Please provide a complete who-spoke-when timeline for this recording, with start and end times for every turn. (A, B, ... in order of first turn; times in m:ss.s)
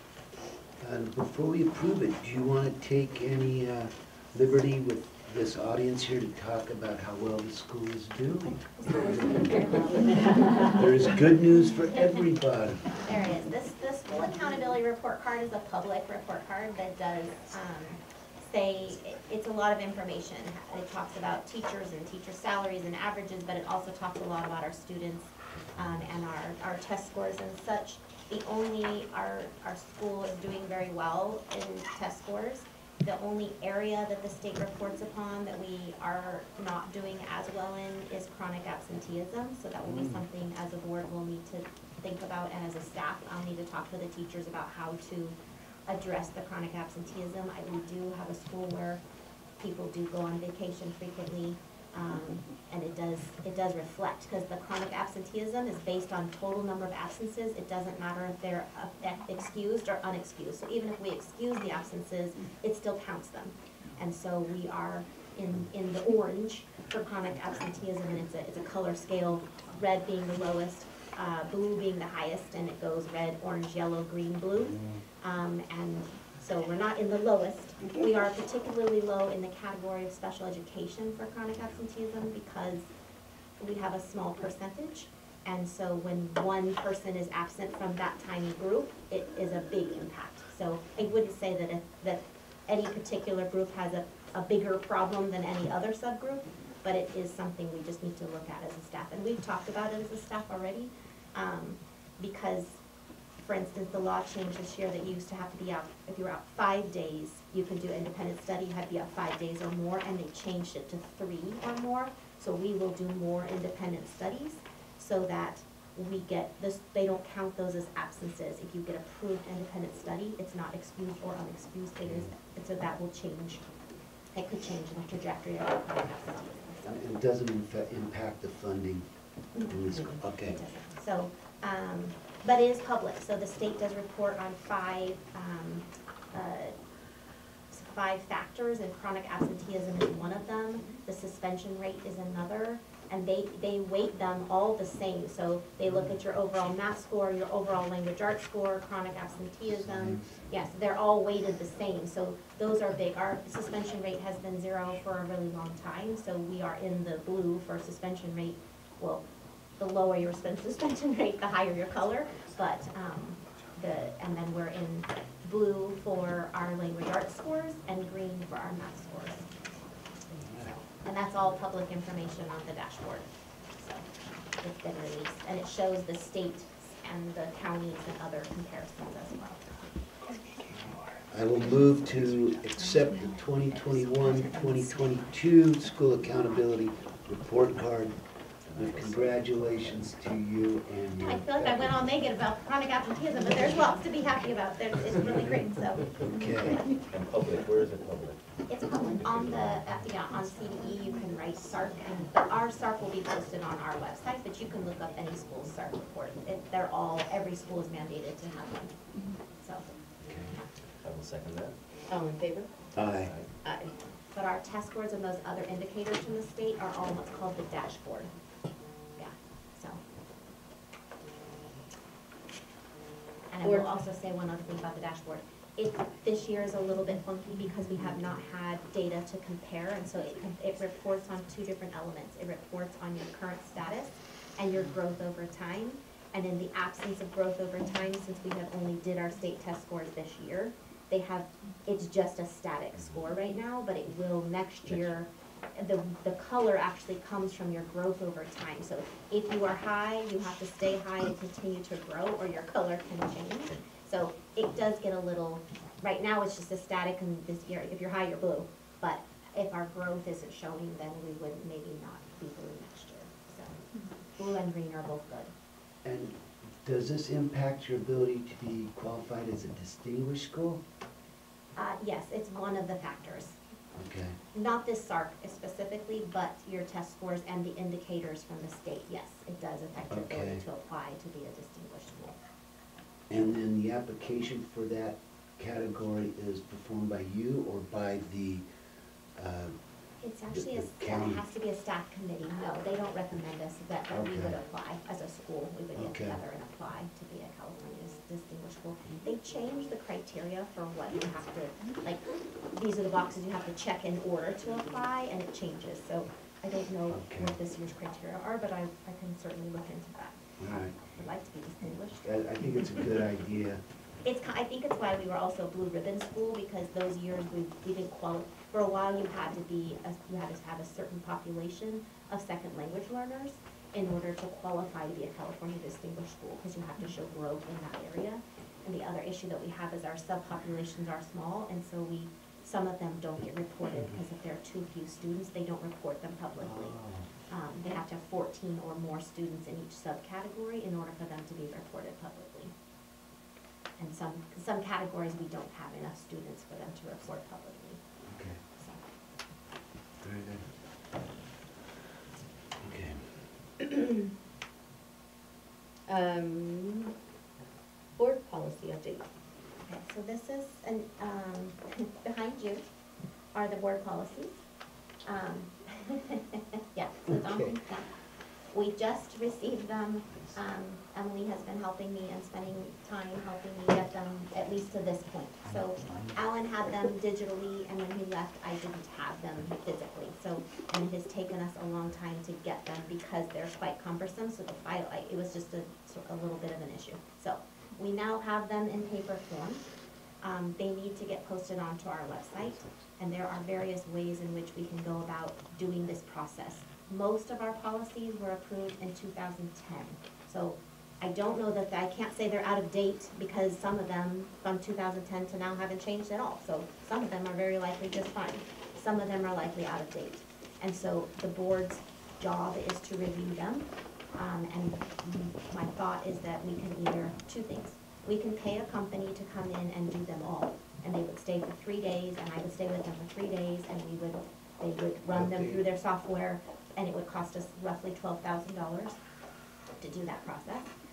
0:00.8-0:12.9 A
0:08.8-0:11.2 B
0:13.0-0:49.0 B
0:25.7-0:26.2 A
0:49.6-1:22.9 B
1:23.6-1:42.8 B
1:43.4-2:03.6 B
2:02.0-2:02.3 A
2:04.3-2:06.8 B
2:06.8-2:09.1 A
2:09.7-2:10.6 A
2:09.9-2:10.2 C
2:10.3-2:16.8 B
2:17.7-2:39.2 B
2:25.8-2:26.1 A
2:29.7-2:30.3 A
2:39.8-2:49.5 B
2:50.4-2:50.8 A
2:50.6-2:54.1 B
2:54.6-2:59.6 B
3:01.3-3:08.2 A
3:04.2-3:04.6 B
3:08.7-3:10.2 D
3:08.7-3:12.0 A
3:11.2-3:16.1 B
3:16.2-3:16.8 A
3:17.1-3:18.4 D
3:18.7-3:28.9 B
3:19.2-3:19.8 D
3:29.6-3:29.9 B
3:30.2-3:30.6 A
3:31.0-3:31.8 D
3:32.1-3:32.7 C
3:33.0-3:33.3 A
3:33.0-3:33.5 D
3:33.6-3:33.9 C
3:34.3-3:38.3 B
3:39.2-3:40.0 B
3:43.5-4:23.8 B
3:43.6-3:44.0 C
4:04.9-4:05.2 D
4:24.4-4:25.5 B
4:26.0-4:30.8 A
4:31.8-4:33.6 B
4:33.9-4:34.4 A
4:34.5-4:42.4 B
4:40.1-4:40.7 A
4:43.3-4:48.7 A
4:49.4-4:49.8 A
4:50.2-5:12.4 B
4:50.5-4:51.4 A
4:54.1-4:54.6 A
4:56.0-4:56.4 A
5:07.1-5:07.6 A
5:10.6-5:11.0 A
5:12.2-5:13.8 A
5:14.2-5:37.0 B
5:36.6-5:37.3 A
5:37.5-5:42.7 B
5:44.0-5:48.0 B
5:48.2-5:48.6 A
5:48.8-5:49.1 B
5:50.2-5:50.7 A
5:52.8-5:53.5 A
5:56.1-5:57.1 C
5:58.2-5:59.3 C
5:59.9-6:02.8 B
6:03.5-6:04.6 B
6:05.2-6:08.1 B
6:07.2-6:07.8 A
6:08.7-6:29.8 B
6:10.3-6:10.6 A
6:15.6-6:16.4 A
6:30.4-7:09.2 B
6:32.6-6:33.0 A
7:05.3-7:05.9 A
7:10.0-7:10.9 B